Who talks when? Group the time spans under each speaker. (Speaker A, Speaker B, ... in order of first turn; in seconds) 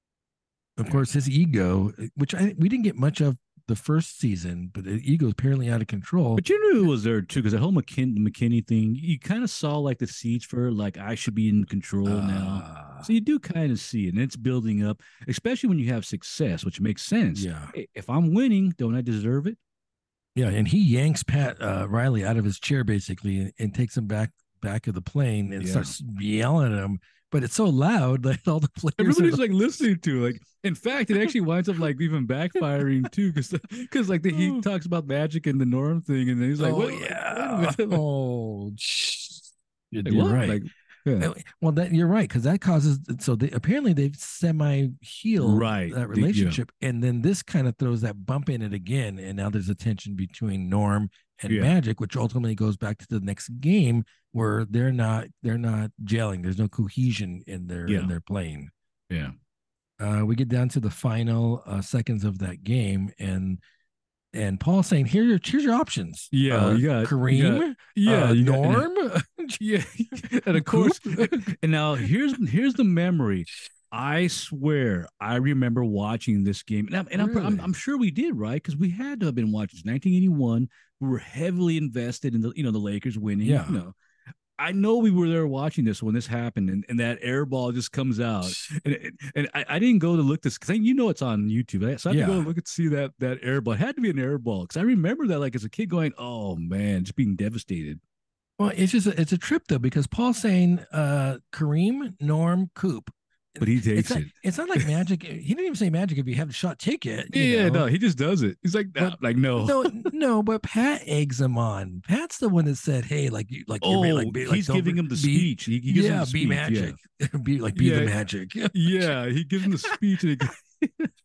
Speaker A: 0.8-6.4, 12.1-13.1, 17.3-17.7, 20.4-29.4, 34.3-34.6, 36.6-40.6, 41.2-58.7, 60.0-63.6, 64.3-69.6, 70.1-72.1, 77.2-77.7, 83.4-83.8, 92.1-92.5, 98.6-107.9, 109.0-120.0
Speaker B: 6.4-19.6, 25.6-25.9, 29.0-38.0, 40.1-41.3, 45.4-46.6, 51.5-51.8, 57.9-58.1, 66.3-68.9, 69.6-84.0, 84.6-98.0, 103.6-104.9, 107.3-110.1, 113.8-117.0, 117.8-118.2, 118.7-121.1